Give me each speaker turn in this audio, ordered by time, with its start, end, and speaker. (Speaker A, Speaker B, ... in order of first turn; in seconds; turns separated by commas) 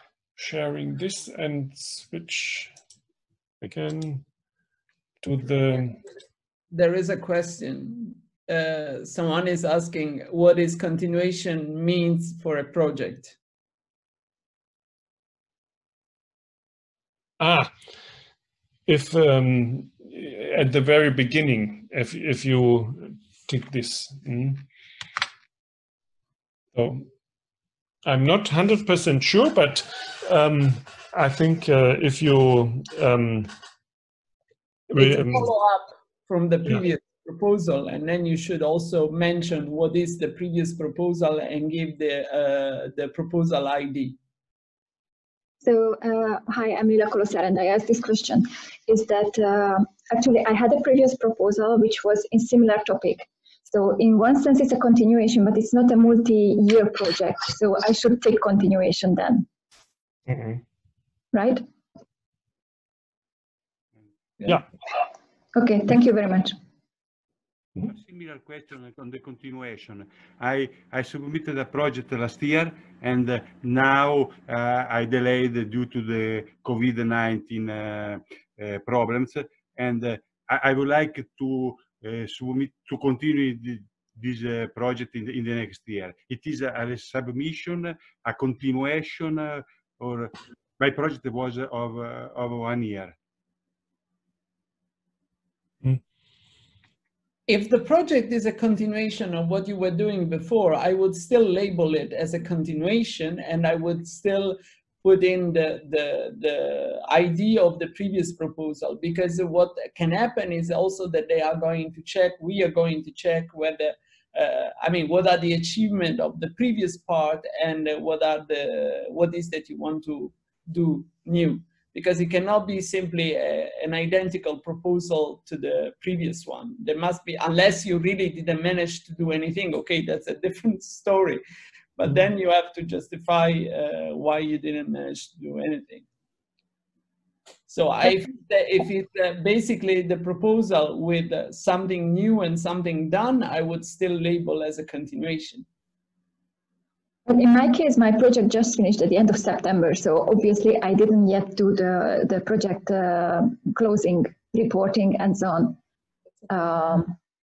Speaker A: 0.4-2.7, Speaker A: 3.6-4.2, Speaker A: 5.2-6.0, Speaker B: 6.7-13.3, Speaker A: 17.4-17.7, Speaker A: 18.9-24.6, Speaker A: 26.8-27.1, Speaker A: 28.1-33.5, Speaker A: 34.9-35.5, Speaker B: 35.0-44.2, Speaker C: 45.6-59.5, Speaker A: 60.3-60.6, Speaker C: 61.3-61.6, Speaker C: 65.5-66.6, Speaker D: 67.8-93.2, Speaker B: 97.5-131.4, Speaker B: 132.0-136.1, Speaker B: 137.7-145.7, Speaker C: 147.3-155.8, Speaker C: 156.5-157.2